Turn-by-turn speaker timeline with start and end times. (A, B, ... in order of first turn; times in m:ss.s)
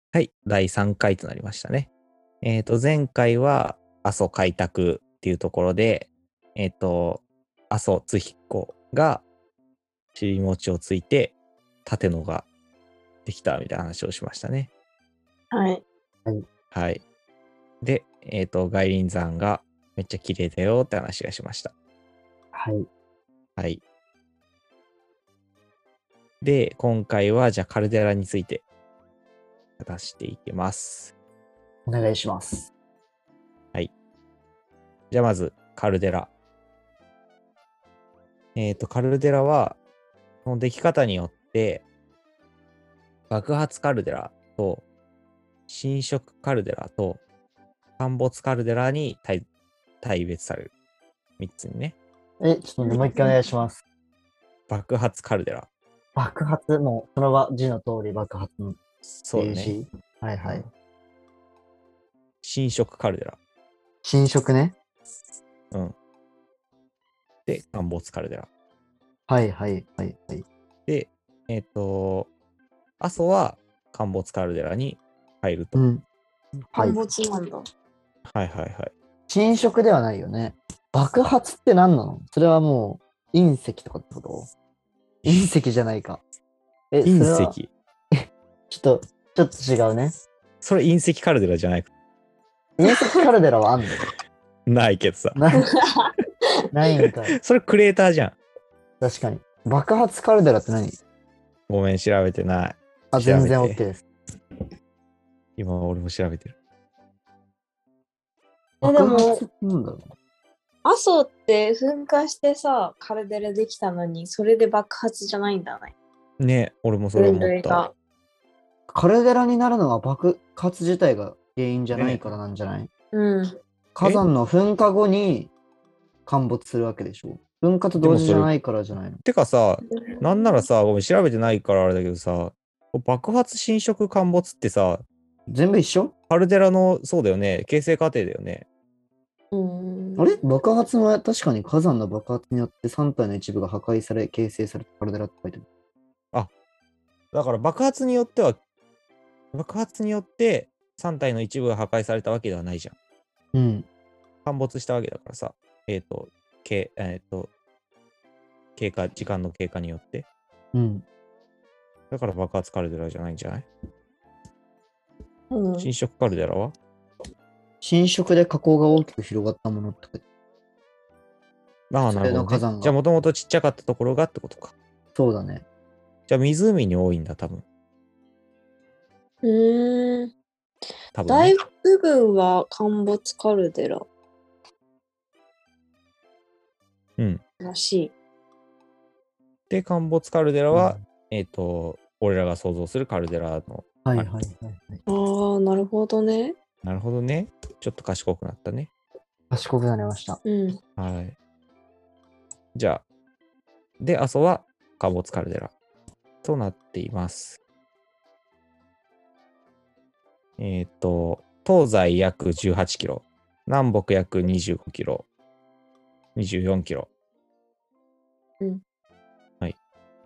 0:00.1-0:01.9 A
0:02.4-0:09.2 A
0:10.1-0:12.5 A
0:13.2-0:14.7 A
0:15.5-0:15.8 B
0:16.7-0:17.0 A
0:17.8-0:21.7 A
0:22.5-0:22.9 C
0:26.4-0:28.6 A
0:29.8-0:31.1 A
0:31.8-0:32.7 C
0:35.1-0:36.3 A
0:38.6-0:39.8 A
0:40.4-0:41.8 A
0:43.3-0:44.8 A
0:45.7-0:47.2 A
0:48.0-0:49.4 A
0:50.0-0:50.7 A
0:51.4-0:52.0 A
0:52.4-0:53.8 C
0:52.8-0:53.3 B
0:54.7-0:55.7 A
0:56.1-0:58.8 C
0:59.0-0:59.7 A
0:59.3-1:00.7 C
1:02.4-1:03.4 A
1:04.0-1:04.8 C
1:07.4-1:08.5 A
1:09.3-1:10.4 C
1:10.9-1:12.3 A
1:13.0-1:15.8 A
1:15.7-1:16.0 C
1:16.6-1:17.0 C
1:16.7-1:17.6 B
1:18.3-1:18.9 A
1:19.3-1:24.5 C
1:25.2-1:26.2 C
1:26.9-1:27.6 C
1:27.0-1:27.7 A
1:28.1-1:30.1 C
1:30.6-1:31.9 A
1:32.8-1:34.0 C
1:34.7-1:35.4 A
1:35.3-1:35.7 C
1:36.7-1:37.4 C
1:37.3-1:38.4 A
1:39.0-1:41.0 C
1:41.7-1:43.8 A
1:43.1-1:44.0 C
1:45.6-1:46.5 A
1:48.8-1:50.1 C
1:48.8-1:49.4 B
1:50.8-1:55.9 B
1:56.4-1:57.8 A
1:57.1-1:57.9 B
1:58.9-2:02.9 C
2:01.9-2:02.2 A
2:03.1-2:03.5 B
2:03.9-2:05.5 C
2:06.2-2:09.2 C
2:08.0-2:08.5 A
2:09.2-2:15.0 A
2:10.0-2:10.6 B
2:15.5-2:16.1 C
2:16.3-2:18.6 A
2:19.5-2:20.3 B
2:20.2-2:25.6 C
2:27.3-2:28.6 A
2:29.5-2:32.9 A
2:33.5-2:33.9 C
2:34.4-2:37.5 A
2:38.8-2:40.2 A
2:40.7-2:41.0 C
2:42.1-2:43.7 A
2:45.5-2:45.9 B
2:45.8-2:46.7 A
2:47.8-2:50.2 C
2:51.9-2:54.7 A
2:52.1-2:53.0 C
2:55.1-2:55.6 C
2:56.3-2:57.6 A
2:59.4-3:00.3 B
3:01.1-3:01.6 A
3:01.3-3:04.1 B
3:07.6-3:08.1 B
3:09.7-3:14.3 A
3:10.7-3:11.0 C
3:14.0-3:15.0 C
3:15.1-3:16.5 B
3:16.8-3:18.9 A
3:19.5-3:20.4 C
3:20.4-3:20.8 B
3:21.0-3:21.4 A
3:22.7-3:23.0 A
3:24.0-3:25.7 A
3:26.4-3:27.6 A
3:30.6-3:35.2 A
3:36.4-3:37.1 A